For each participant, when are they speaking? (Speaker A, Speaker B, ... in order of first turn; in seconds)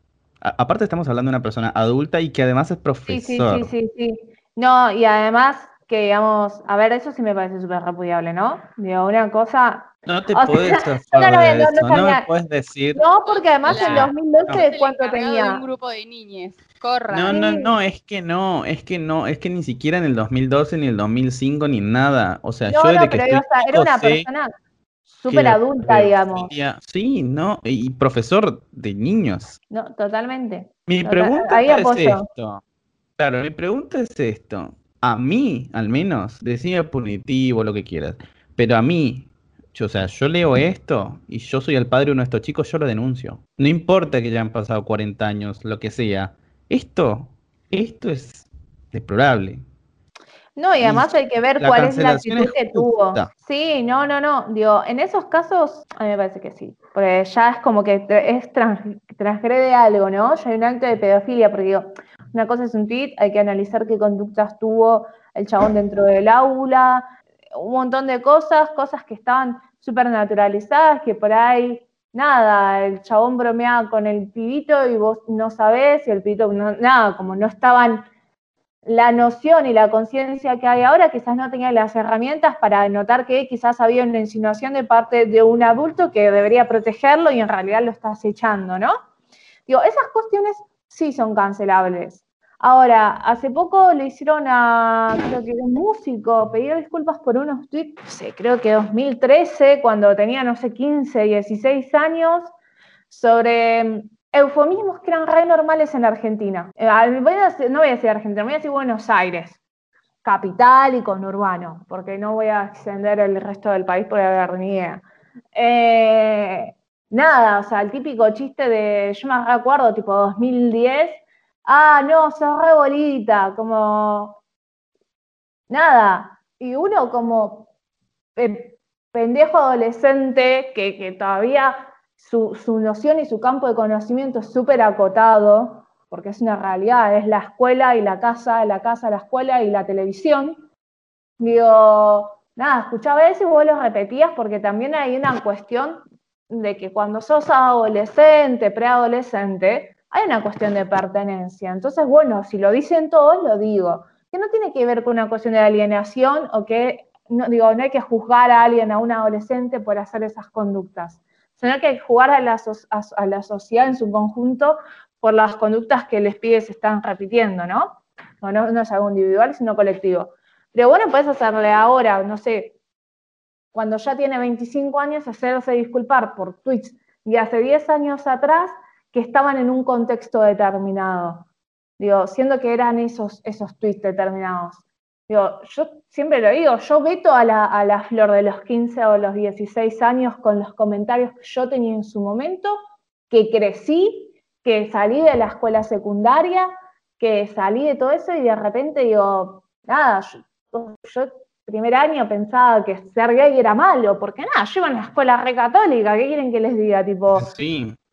Speaker A: 0.4-3.7, 10.1-13.0, 13.7-14.6, 17.1-24.3, 25.3-29.6, 30.9-32.6, 33.2-49.6, 50.8-53.3, 207.3-208.0
Speaker B: 3.1-12.3, 12.9-15.6, 17.3-17.7, 22.7-24.5, 25.1-26.5, 29.7-32.3, 50.6-78.1, 78.8-89.0, 89.7-102.5, 103.1-109.6, 110.2-124.4, 125.7-127.7, 128.4-140.6, 141.4-172.8, 173.7-181.5, 182.0-192.8, 193.3-207.5
Speaker C: 13.3-17.4